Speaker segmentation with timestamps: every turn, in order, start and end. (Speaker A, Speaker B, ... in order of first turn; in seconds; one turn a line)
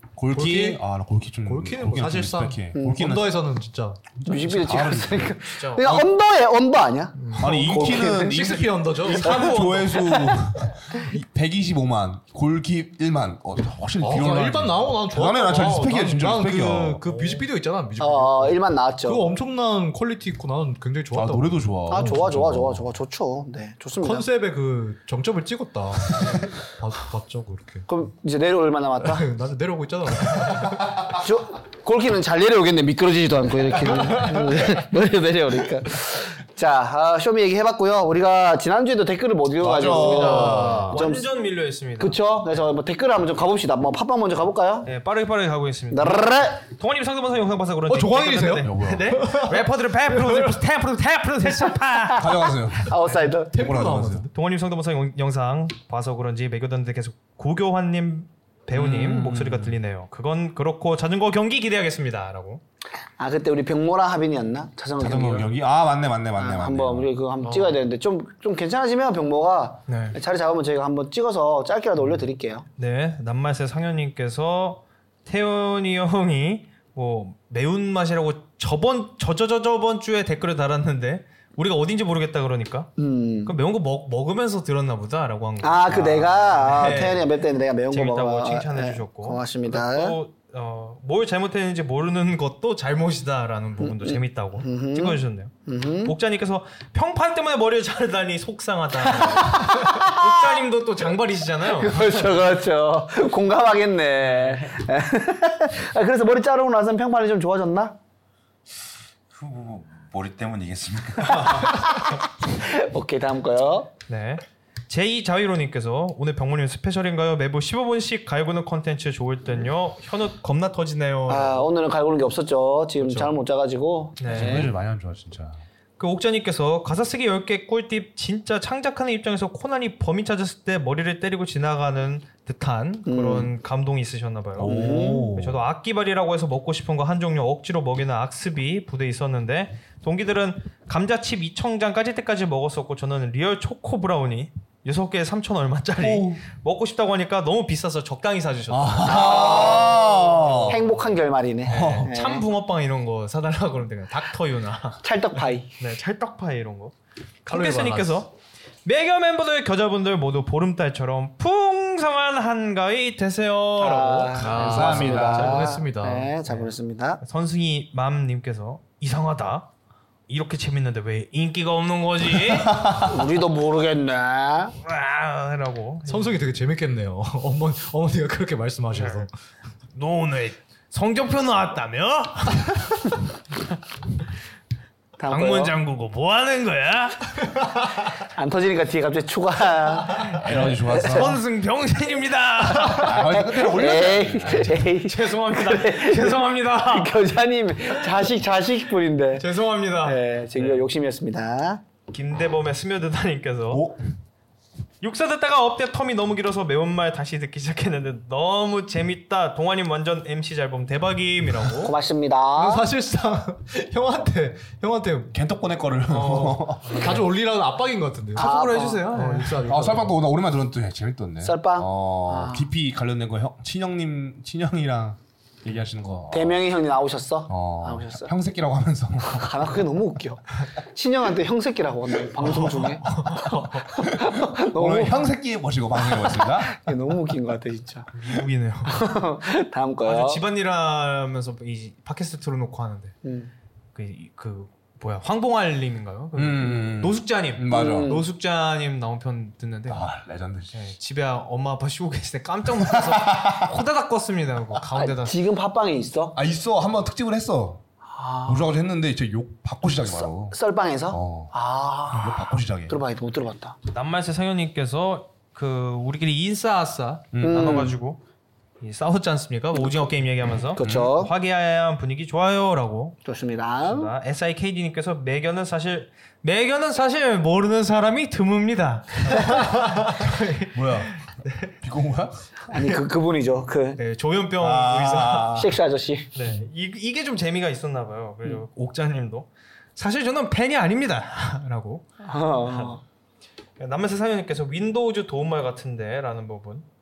Speaker A: 0.2-3.4
Speaker B: 0.3-0.8
Speaker B: 1.4-4.0
Speaker C: 2.7-3.0
Speaker A: 4.2-6.1
Speaker C: 4.2-8.6
Speaker D: 5.5-5.8
Speaker D: 7.2-7.5
Speaker A: 7.3-17.1
Speaker B: 7.7-9.3
Speaker D: 9.0-10.3
Speaker B: 14.0-22.2
Speaker D: 17.1-17.4
Speaker C: 18.0-19.2
Speaker A: 21.1-22.8
Speaker C: 21.9-24.3
Speaker B: 24.0-27.9
Speaker C: 27.9-29.3
Speaker B: 29.0-30.9
Speaker C: 31.0-41.2
Speaker A: 39.6-40.8
Speaker B: 39.9-41.0
Speaker D: 40.9-42.6
Speaker C: 42.0-44.9
Speaker D: 44.8-52.3
Speaker C: 45.9-46.6
Speaker B: 47.9-50.6
Speaker A: 48.6-49.1
Speaker C: 52.0-53.6
Speaker A: 52.1-53.0
Speaker B: 53.5-54.3
Speaker A: 53.5-54.3
Speaker D: 54.3-62.6
Speaker A: 58.7-59.8
Speaker C: 63.2-65.5
Speaker A: 65.0-67.1
Speaker C: 66.3-72.6
Speaker D: 69.9-70.2
Speaker D: 72.8-82.9
Speaker C: 83.0-83.5
Speaker D: 83.4-95.5
Speaker C: 85.6-90.2
Speaker C: 93.8-96.1
Speaker D: 96.0-102.4
Speaker C: 99.2-100.1
Speaker C: 101.7-108.0
Speaker D: 104.2-104.6
Speaker E: 109.3-111.8
Speaker C: 111.4-113.9
Speaker D: 114.1-121.7
Speaker C: 121.3-124.7
Speaker B: 123.0-123.3
Speaker D: 124.2-124.7
Speaker A: 124.3-125.6
Speaker D: 126.0-155.0
Speaker C: 133.1-133.5
Speaker A: 134.6-135.6
Speaker C: 134.6-135.3
Speaker A: 146.0-146.4
Speaker A: 148.7-150.8
Speaker C: 149.0-150.1
Speaker C: 150.7-152.4
Speaker A: 151.7-152.1
Speaker C: 155.0-155.7
Speaker D: 155.8-156.9
Speaker D: 157.4-158.3
Speaker B: 157.5-158.2
Speaker D: 158.8-164.9
Speaker C: 163.8-167.2
Speaker B: 164.3-166.3
Speaker A: 164.5-165.7
Speaker D: 166.4-169.7
Speaker D: 170.3-172.9
Speaker A: 172.7-173.2
Speaker C: 172.9-174.7
Speaker D: 174.8-176.4
Speaker B: 176.1-179.3
Speaker D: 178.9-179.3
Speaker D: 179.9-183.1
Speaker C: 185.2-185.7
Speaker D: 185.3-187.7
Speaker C: 188.3-191.3
Speaker A: 190.2-191.4
Speaker D: 190.5-193.2
Speaker A: 192.8-194.8
Speaker C: 192.8-199.4
Speaker D: 194.4-197.2
Speaker D: 199.4-200.9
Speaker C: 200.0-201.8
Speaker D: 202.1-203.8
Speaker A: 203.7-204.0
Speaker D: 205.0-211.9
Speaker C: 211.8-212.9
Speaker B: 212.6-215.3
Speaker A: 215.3-217.2
Speaker B: 216.1-218.5
Speaker D: 216.8-217.2
Speaker C: 218.3-219.1
Speaker D: 218.3-219.6
Speaker B: 219.1-220.2
Speaker A: 219.6-226.6
Speaker C: 221.4-222.7
Speaker C: 226.3-228.3
Speaker A: 227.5-229.8
Speaker C: 229.3-230.4
Speaker C: 230.9-233.1
Speaker D: 232.4-234.0
Speaker C: 233.9-235.3
Speaker A: 234.0-236.9
Speaker C: 236.2-238.1
Speaker D: 238.1-239.1
Speaker C: 238.8-240.4
Speaker D: 240.0-243.1
Speaker C: 243.2-243.5
Speaker D: 243.9-250.1
Speaker A: 246.3-248.2
Speaker C: 247.7-248.3
Speaker A: 249.9-250.8
Speaker D: 250.7-255.4
Speaker A: 252.8-253.7
Speaker C: 254.9-256.4
Speaker A: 256.3-257.8
Speaker C: 258.1-258.7
Speaker A: 258.4-260.6
Speaker C: 260.0-263.8
Speaker A: 261.1-261.5
Speaker A: 262.1-263.0
Speaker D: 263.9-268.2
Speaker A: 267.3-267.9
Speaker C: 267.4-268.0
Speaker D: 268.8-273.2
Speaker C: 270.8-271.3
Speaker A: 270.8-271.1
Speaker C: 273.2-274.1
Speaker D: 273.8-281.7
Speaker A: 280.7-281.2
Speaker A: 281.8-282.3
Speaker C: 282.7-284.0
Speaker D: 283.9-285.7
Speaker A: 284.6-285.7
Speaker C: 285.6-286.3
Speaker D: 286.3-292.1
Speaker C: 292.2-293.0
Speaker D: 292.6-293.0
Speaker D: 293.8-296.9